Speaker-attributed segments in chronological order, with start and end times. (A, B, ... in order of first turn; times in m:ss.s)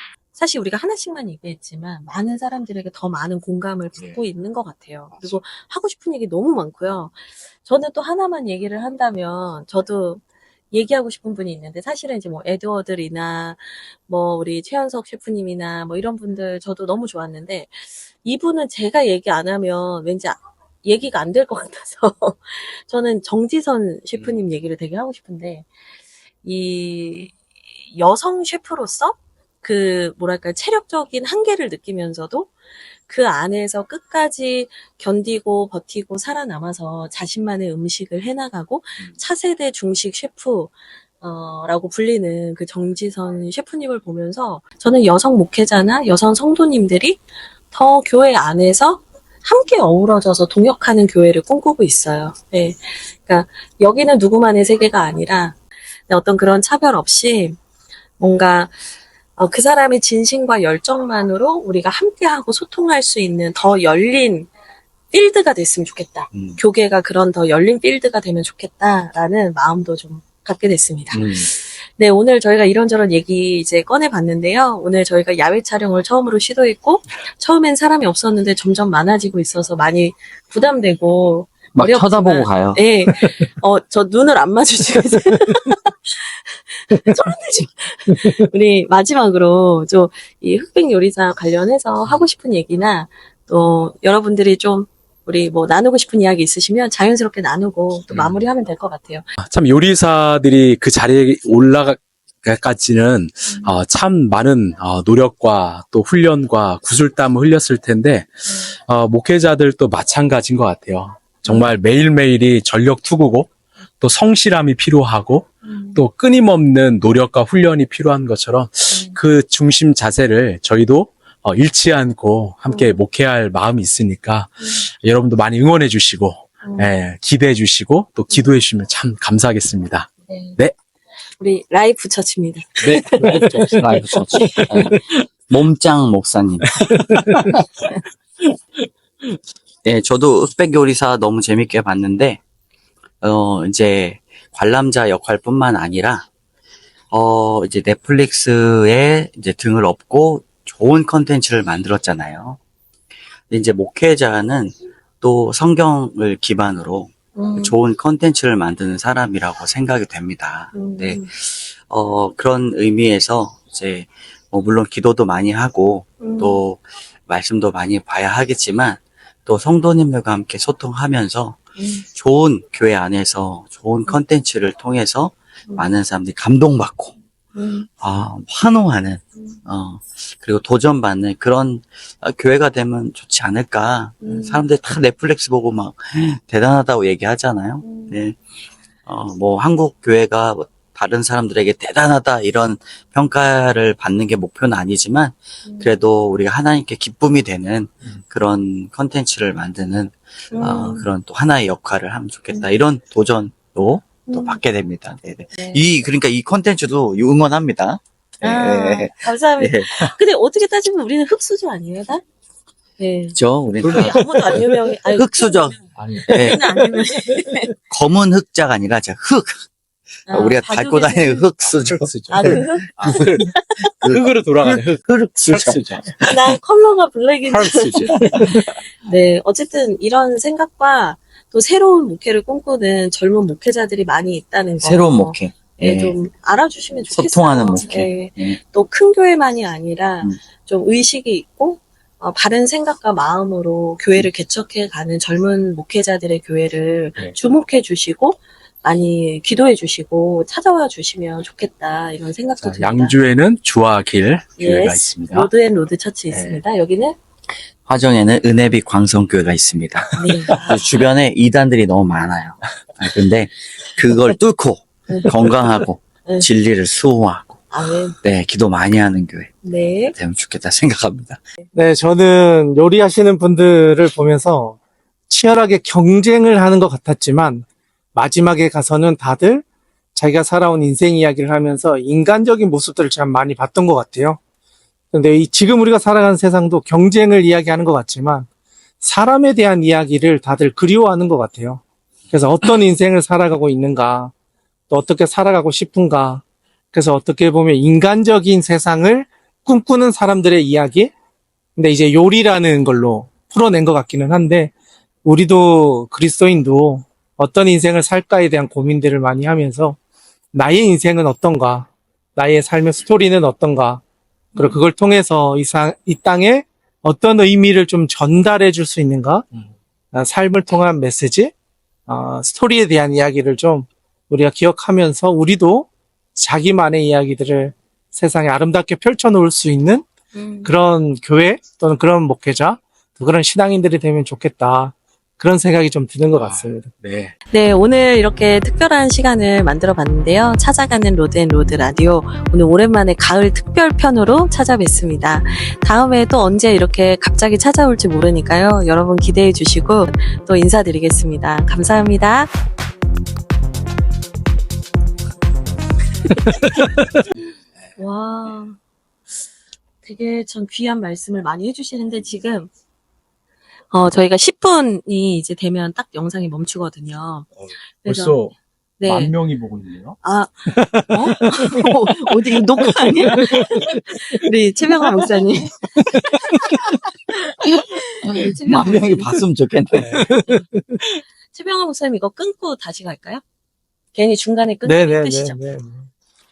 0:00.3-0:25.7 A
0:05.1-0:05.4 B
0:26.4-0:32.5 A
0:33.1-0:55.6 A
0:56.1-0:57.6 A
0:58.2-0:58.8 A
0:59.4-1:04.5 A
1:05.1-1:39.2 A
1:06.3-1:06.6 C
1:21.7-1:22.8 C
1:39.4-2:10.7 B
1:43.5-1:43.7 A
1:51.4-1:51.7 A
1:55.6-1:56.0 A
1:58.9-1:59.2 A
2:02.7-2:03.0 A
2:06.6-2:06.9 A
2:10.3-2:10.6 A
2:11.4-2:13.8 A
2:12.8-2:15.0 B
2:13.2-2:16.8 C
2:14.4-2:15.1 A
2:16.8-2:17.6 B
2:19.8-2:22.4 C
2:23.2-2:26.2 C
2:27.1-2:32.6 C
2:33.5-2:57.1 C
2:37.4-2:37.7 A
2:40.7-2:41.3 A
2:46.2-2:46.6 A
2:51.8-2:52.0 A
2:57.5-2:57.9 A
2:58.0-3:08.4 C
3:04.2-3:04.6 A
3:07.8-3:08.2 A
3:09.0-3:30.1 C
3:15.6-3:15.9 A
3:20.5-3:21.0 A
3:24.3-3:24.6 A
3:25.6-3:25.8 A
3:28.4-3:32.2 A
3:33.0-3:33.4 A
3:33.3-3:36.6 C
3:33.8-3:34.5 B
3:33.9-3:35.8 A
3:35.9-3:36.6 B
3:36.3-3:37.7 A
3:37.9-3:39.6 C
3:40.3-3:41.4 A
3:40.3-3:46.4 C
3:41.6-3:46.1 B
3:42.3-3:43.9 A
3:46.2-4:13.1 A
3:47.5-3:48.6 B
3:47.8-3:48.7 C
3:54.8-3:56.1 C
3:57.1-3:58.6 C
4:12.6-4:15.5 B
4:14.6-4:17.2 A
4:17.8-4:27.6 C
4:20.2-4:21.0 A
4:27.7-4:28.2 A
4:28.2-4:29.5 C
4:29.6-4:30.1 A
4:30.1-4:31.4 C
4:31.7-4:34.8 D
4:35.3-4:39.6 D
4:40.1-4:44.4 D
4:45.1-4:48.5 D
4:49.0-4:54.3 D
4:54.9-5:01.1 D
5:01.8-5:04.7 D
5:05.2-5:10.0 D
5:10.5-5:14.0 D
5:14.6-5:19.5 D
5:20.1-5:21.5 D
5:22.1-5:30.0 D
5:30.3-5:30.7 A
5:30.6-5:36.9 D
5:36.3-5:37.3 B
5:37.5-5:52.5 A
5:56.3-5:57.1 B
5:58.0-5:58.8 A
6:00.0-6:02.7 A
6:03.9-6:07.5 A
6:07.6-6:10.2 B
6:08.0-6:08.4 A
6:09.0-6:09.3 A
6:10.2-6:16.8 A
6:17.3-6:19.2 A
6:18.3-6:18.8 D
6:18.7-6:20.4 C
6:20.1-6:21.1 D
6:20.3-6:20.6 A
6:21.5-6:23.4 A
6:24.1-6:25.6 A
6:24.8-6:26.1 D